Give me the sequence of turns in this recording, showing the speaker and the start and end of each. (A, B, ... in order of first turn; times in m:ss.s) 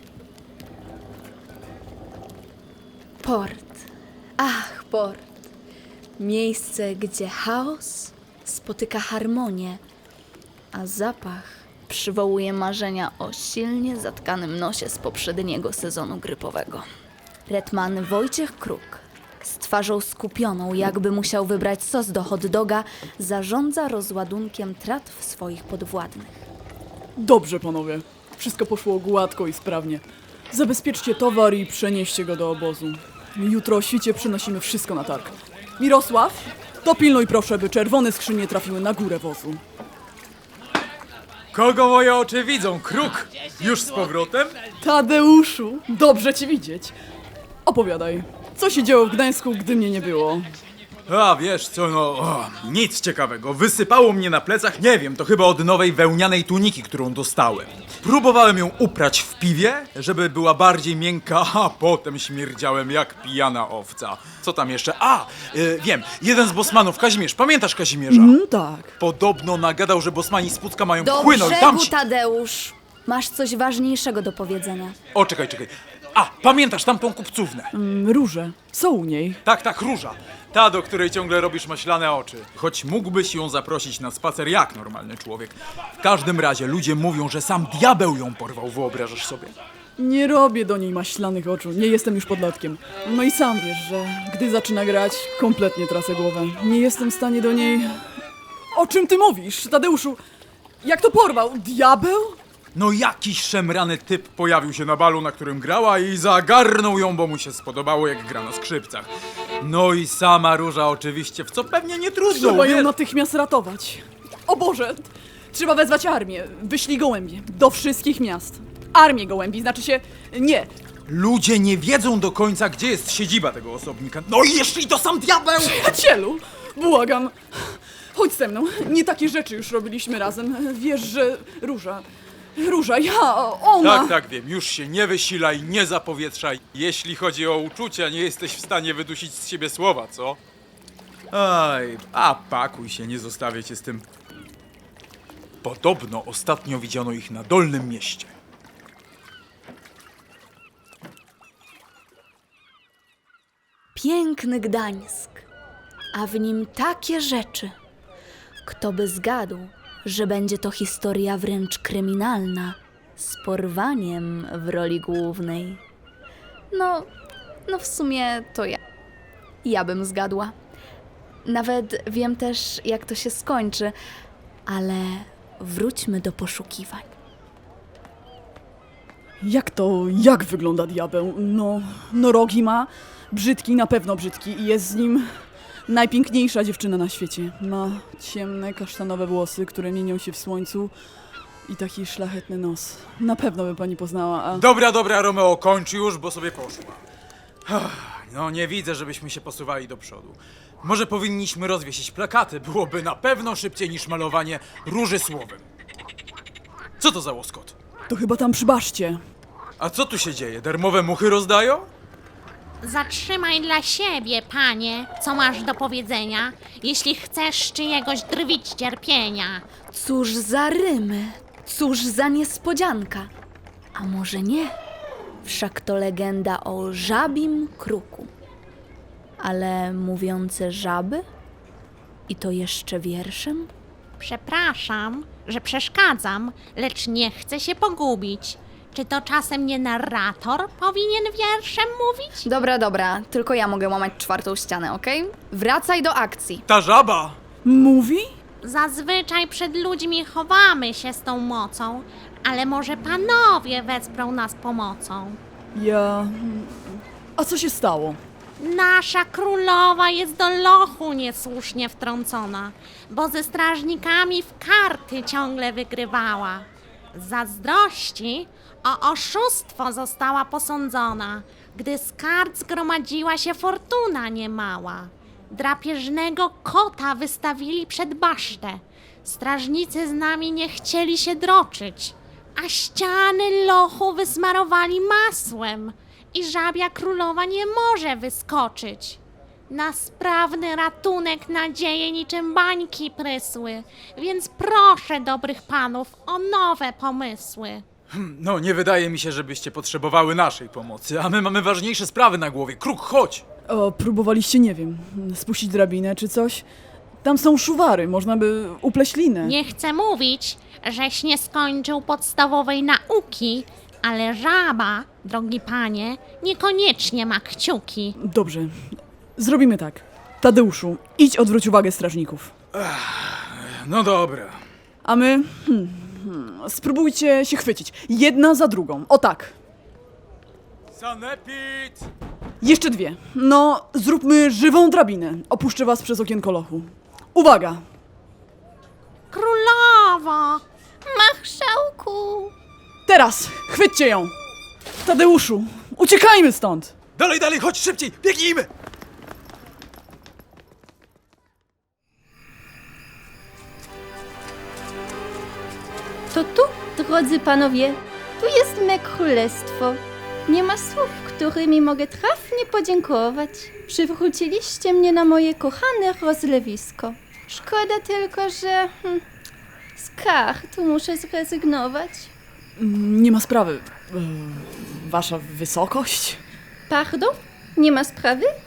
0:03.2-0:03.9 A
0:04.4-0:05.2 A
0:06.2-0:09.8 A
0:10.7-0:16.8 A
0:17.5-0:26.3 A
0:27.2-0:39.6 B
0:41.5-0:44.6 C
0:44.8-0:47.0 B
0:47.7-0:50.5 B
0:51.1-1:08.4 C
1:08.1-1:09.0 B
1:09.0-1:11.9 C
1:11.0-1:15.0 A
1:15.1-1:17.7 C
1:17.7-1:19.4 B
1:19.4-1:29.6 C
1:30.0-1:38.0 B
1:38.7-1:40.2 B
1:40.8-1:42.4 B
1:42.8-1:52.9 C
1:52.3-2:00.7 B
2:01.1-2:05.9 C
2:05.6-2:14.2 B
2:13.8-2:20.4 C
2:21.3-2:24.1 C
2:25.6-2:28.3 C
2:34.0-2:35.4 A
2:36.2-2:37.7 A
2:38.6-2:45.8 A
2:46.7-2:47.1 A
2:47.7-2:48.8 A
2:49.6-2:50.5 A
2:51.4-2:54.0 A
2:54.7-2:57.1 A
2:59.4-3:05.3 B
3:05.9-3:10.9 B
3:11.7-3:14.7 B
3:14.5-3:17.0 C
3:17.7-3:25.6 C
3:27.0-3:27.8 C
3:28.1-3:29.2 B
3:29.8-3:31.9 C
3:32.8-3:39.6 D
3:39.9-3:43.3 A
3:44.0-3:44.7 A
3:45.4-3:48.3 A
3:49.4-3:51.2 A
3:52.3-3:53.7 A
3:54.2-4:02.4 D
4:02.4-4:06.6 A
4:06.7-4:07.4 C
4:07.6-4:08.3 B
4:08.6-4:15.4 D
4:15.8-4:18.2 B
4:18.6-4:57.8 D
4:58.1-5:03.4 C
5:03.7-5:06.6 B
5:07.2-5:09.6 B
5:09.4-5:18.1 D
5:18.2-5:22.5 B
5:22.8-5:24.6 C
5:25.0-5:29.5 B
5:30.9-5:32.1 C
5:32.6-5:37.8 B
5:39.3-5:40.6 D
5:41.1-5:42.5 E
5:43.1-5:44.3 B
5:45.0-5:47.0 B
5:47.2-5:48.7 C
5:56.3-6:09.2 E
6:10.0-6:12.3 E
6:12.8-6:16.4 B
6:16.9-6:18.5 E